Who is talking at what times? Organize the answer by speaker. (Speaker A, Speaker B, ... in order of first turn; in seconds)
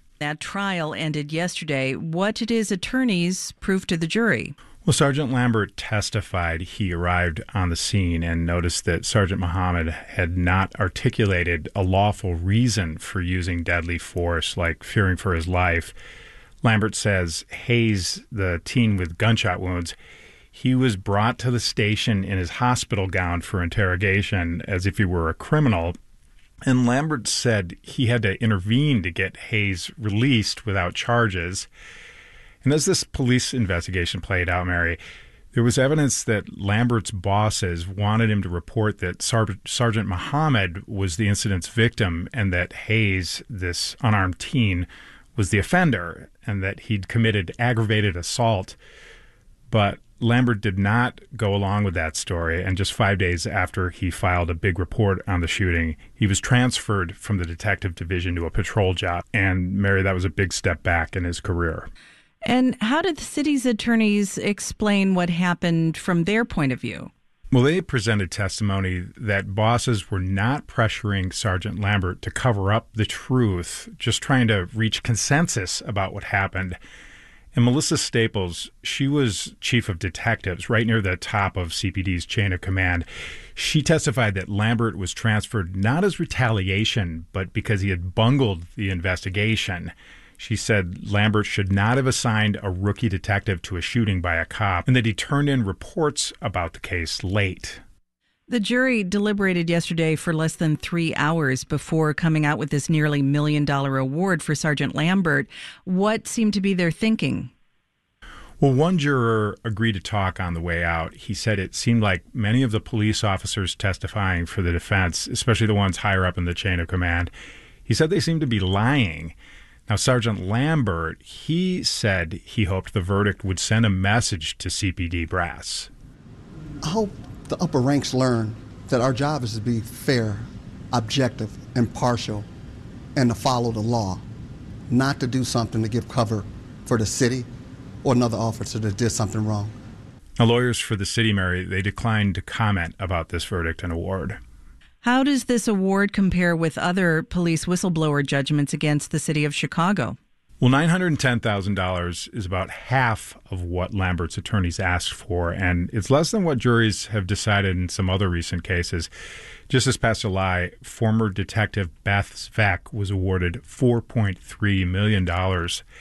Speaker A: 0.2-4.5, 62.4-67.1, 98.5-107.5, 145.0-150.2
Speaker B: 4.8-15.9, 16.6-19.9, 20.5-25.9, 26.6-31.7, 32.6-35.0, 35.5-48.8, 49.7-61.9, 67.5-76.8, 77.5-97.8, 108.6-117.3, 117.8-119.3, 119.9-125.9, 140.4-144.4, 150.6-159.1, 159.7-165.8
Speaker C: 126.8-132.5, 133.1-134.2, 134.9-137.5, 138.0-139.7